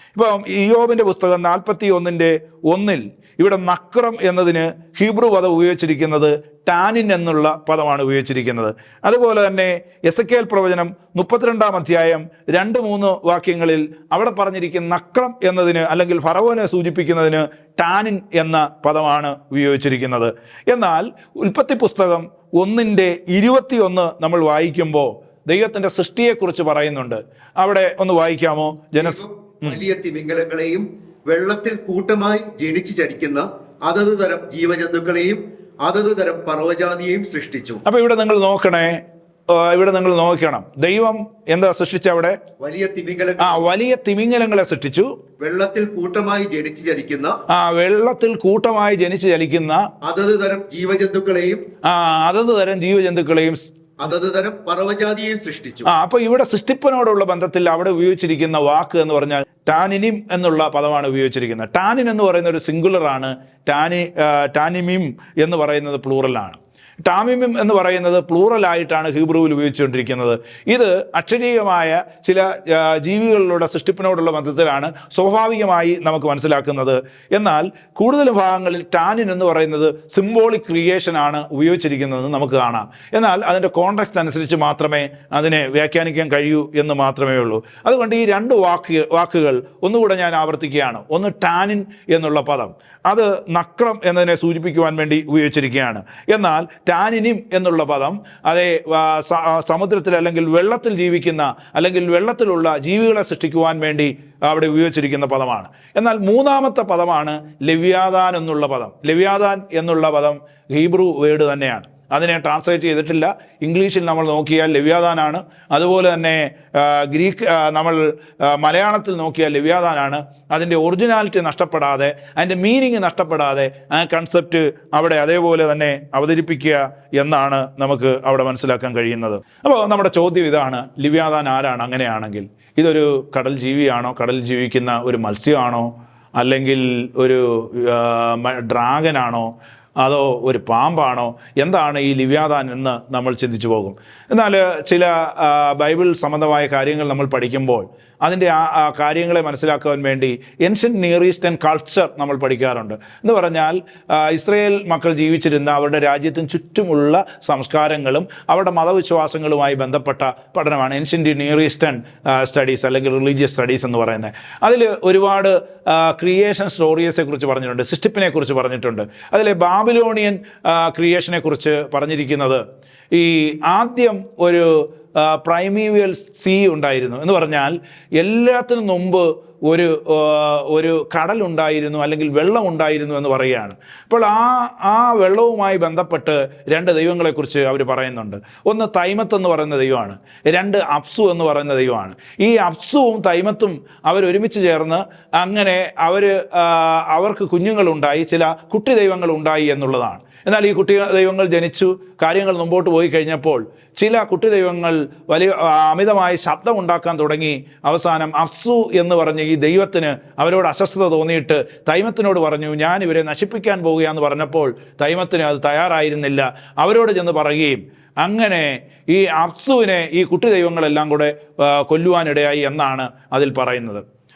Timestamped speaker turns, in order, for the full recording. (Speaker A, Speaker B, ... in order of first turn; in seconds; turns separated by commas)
Speaker A: 0.1-29.8, Speaker B: 29.0-37.8, Speaker A: 37.9-42.4, Speaker B: 42.6-43.6, Speaker A: 43.4-45.1, Speaker B: 45.4-47.4, Speaker A: 47.5-49.9, Speaker B: 50.0-51.6, Speaker A: 51.8-53.7, Speaker B: 54.0-55.9, Speaker A: 55.9-224.0